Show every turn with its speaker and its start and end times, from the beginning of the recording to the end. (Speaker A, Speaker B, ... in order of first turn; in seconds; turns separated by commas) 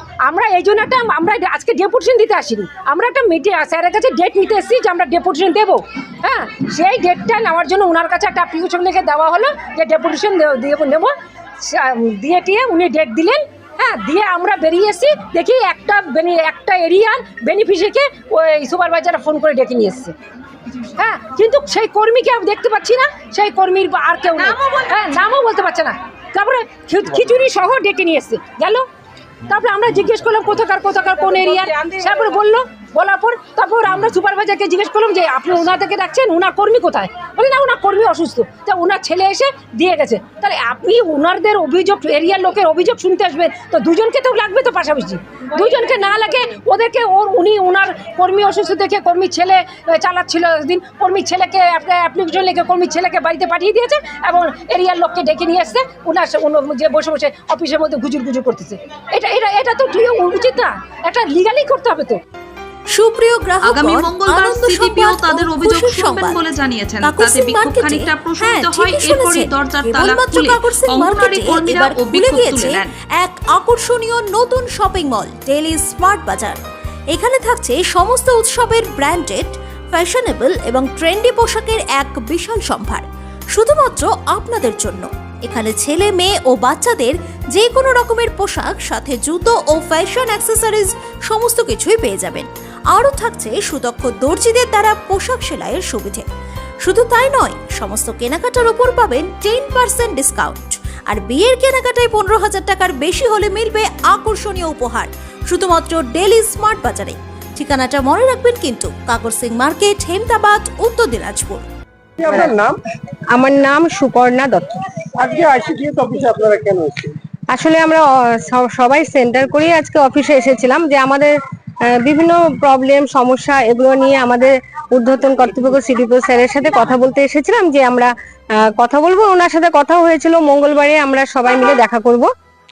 Speaker A: 0.2-20.1, Speaker A: 21.0-28.8, Speaker A: 29.5-62.2, Speaker B: 62.9-66.4, Speaker C: 63.6-72.9, Speaker B: 67.0-76.6, Speaker B: 77.1-96.2, Speaker B: 96.8-111.6, Speaker D: 112.2-112.8, Speaker E: 112.3-112.5, Speaker E: 113.3-114.8, Speaker D: 115.2-117.2, Speaker E: 117.5-121.3, Speaker E: 121.9-132.3